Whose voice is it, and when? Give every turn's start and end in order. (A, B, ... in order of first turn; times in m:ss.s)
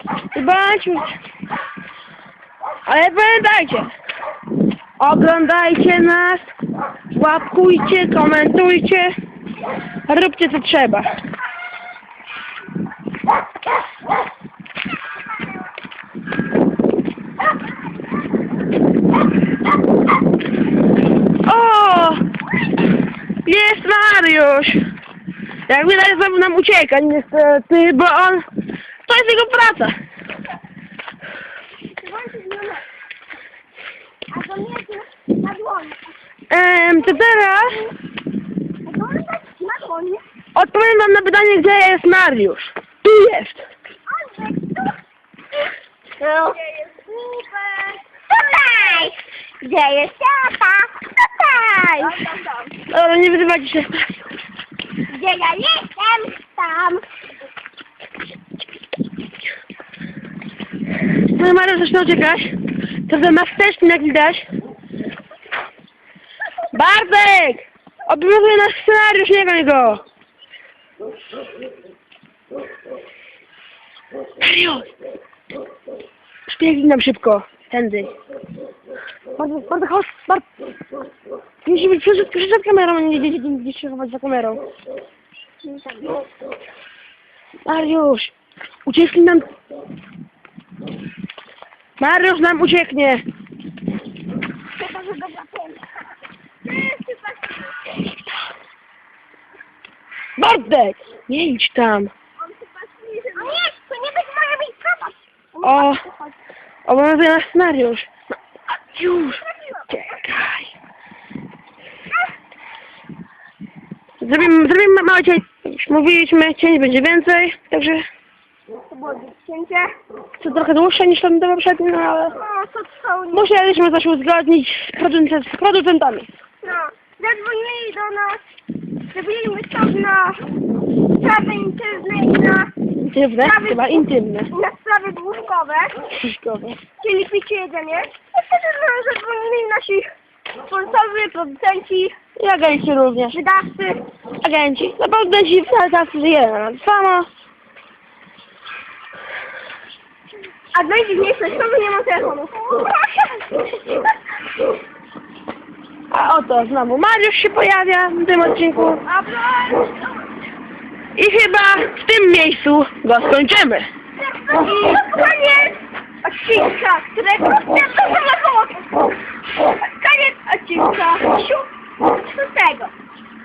0:00.3-0:01.1 A
0:02.8-0:03.9 A
0:05.0-0:06.4 A
0:07.1-0:09.1 A
0:10.1-0:11.2 A
0:21.4-0:22.2 A
0:23.4-0:24.8 A
0:25.7-0:28.5 A
0:29.0-0:30.0 A
0:31.8-0:32.9 B
0:34.3-0:36.1 B
0:36.5-0:37.8 A
0:37.0-0:37.9 B
0:38.8-0:40.2 B
0:40.5-0:43.6 A
0:44.1-0:45.0 B
0:46.2-0:52.7 B
0:52.9-0:54.2 A
0:55.1-0:57.1 B
1:01.1-1:04.5 A
1:06.7-1:10.0 A
1:14.4-1:14.9 A
1:16.4-1:18.1 A
1:19.4-1:20.4 A
1:21.6-1:24.6 A
1:25.6-1:26.3 B
1:27.6-1:28.3 A
1:28.8-1:29.5 A
1:32.0-1:33.2 A
1:34.8-1:36.1 B
1:36.6-1:38.2 B
1:40.4-1:42.1 A
1:42.4-1:46.4 B
1:45.6-1:46.0 A
1:46.8-1:48.1 A
1:48.9-1:50.7 A
1:49.1-1:50.1 B
1:54.2-1:58.0 A
1:58.9-1:59.9 B
2:00.4-2:02.4 A
2:02.2-2:03.5 B
2:03.3-2:06.3 A
2:06.6-2:08.4 B
2:09.1-2:10.5 B
2:11.1-2:12.7 B
2:12.9-2:14.5 A
2:13.4-2:16.0 B
2:16.1-2:16.8 A
2:17.0-2:22.1 B
2:22.4-2:23.4 A
2:23.3-2:24.0 B
2:24.3-2:27.3 A
2:30.7-2:34.1 B
2:36.1-2:39.0 A
2:39.0-2:40.3 B
2:41.1-2:43.9 A
2:44.2-2:49.1 B
2:49.8-2:52.9 B